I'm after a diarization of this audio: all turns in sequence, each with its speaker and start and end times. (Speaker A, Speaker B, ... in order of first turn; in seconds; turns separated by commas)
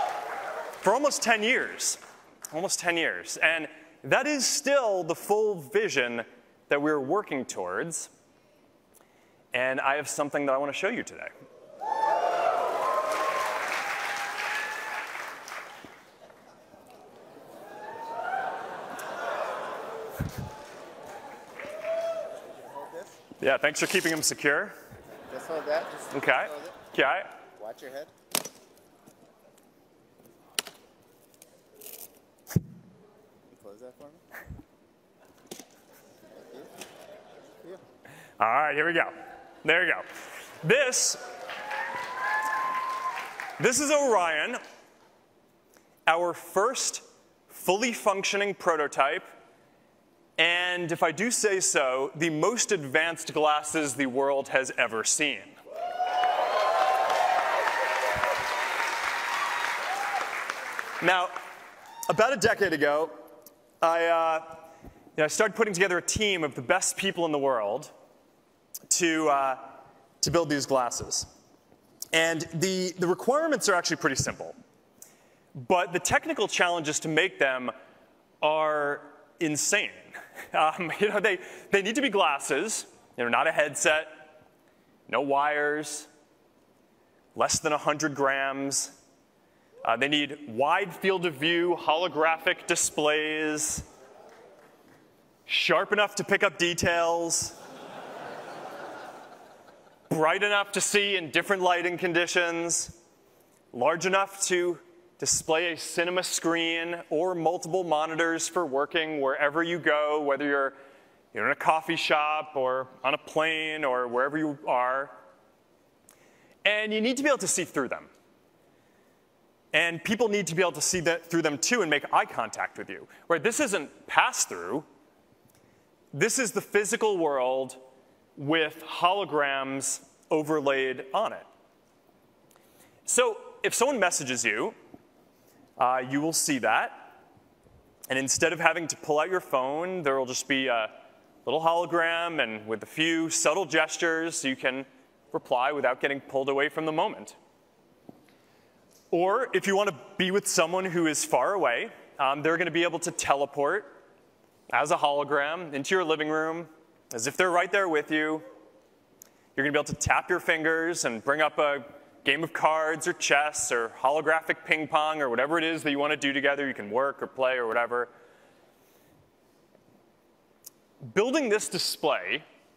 Speaker A: 0.8-2.0, Speaker A: 2.5-8.1, Speaker A: 9.5-11.3, Speaker B: 22.6-23.1, Speaker A: 23.4-24.8, Speaker B: 25.3-26.7, Speaker A: 26.1-27.3, Speaker B: 27.6-28.1, Speaker B: 33.5-34.2, Speaker B: 36.4-36.7, Speaker A: 38.4-39.1, Speaker A: 39.6-40.0, Speaker A: 40.6-41.2, Speaker A: 43.6-44.6, Speaker A: 46.1-49.2, Speaker A: 50.4-55.5, Speaker A: 61.0-61.3, Speaker A: 62.1-63.1, Speaker A: 63.8-64.5, Speaker A: 65.2-67.9, Speaker A: 68.9-69.6, Speaker A: 70.2-71.3, Speaker A: 72.1-74.5, Speaker A: 75.6-77.7, Speaker A: 78.4-84.1, Speaker A: 85.1-86.1, Speaker A: 87.4-88.9, Speaker A: 89.8-93.8, Speaker A: 95.5-97.6, Speaker A: 100.1-102.9, Speaker A: 103.7-110.8, Speaker A: 111.3-115.1, Speaker A: 116.6-118.1, Speaker A: 119.7-124.8, Speaker A: 126.1-127.8, Speaker A: 128.3-131.5, Speaker A: 133.1-134.8, Speaker A: 135.8-137.1, Speaker A: 138.1-140.9, Speaker A: 141.4-147.3, Speaker A: 149.1-153.9, Speaker A: 154.7-158.4, Speaker A: 159.6-168.1, Speaker A: 171.0-172.4